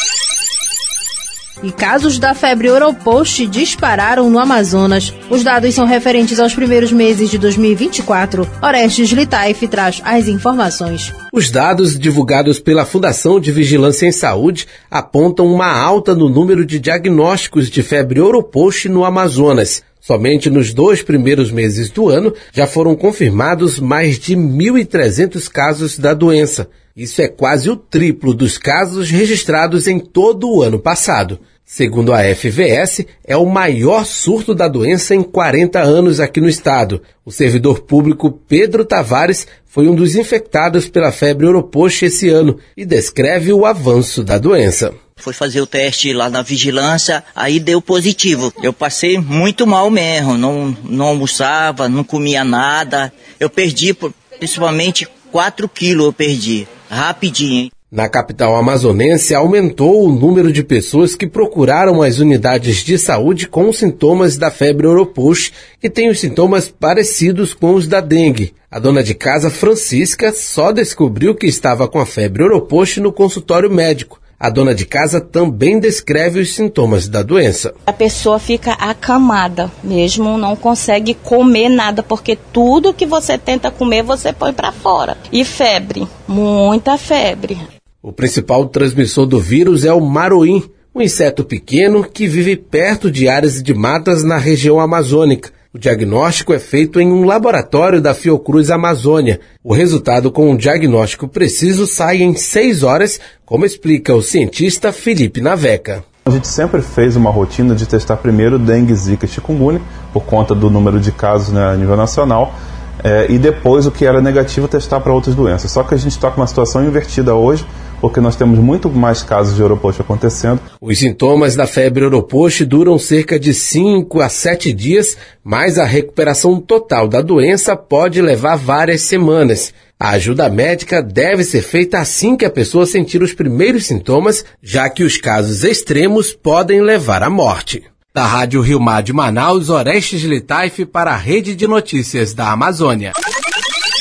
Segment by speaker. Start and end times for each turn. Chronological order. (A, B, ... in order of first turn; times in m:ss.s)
0:01.6-0:11.1 A
0:11.3-0:45.0 B
0:45.2-0:57.7 C
0:57.9-1:17.7 B
1:17.9-1:27.7 D
1:28.0-1:46.0 B
1:46.2-1:52.5 E
1:53.0-2:00.6 E
2:00.8-2:23.1 B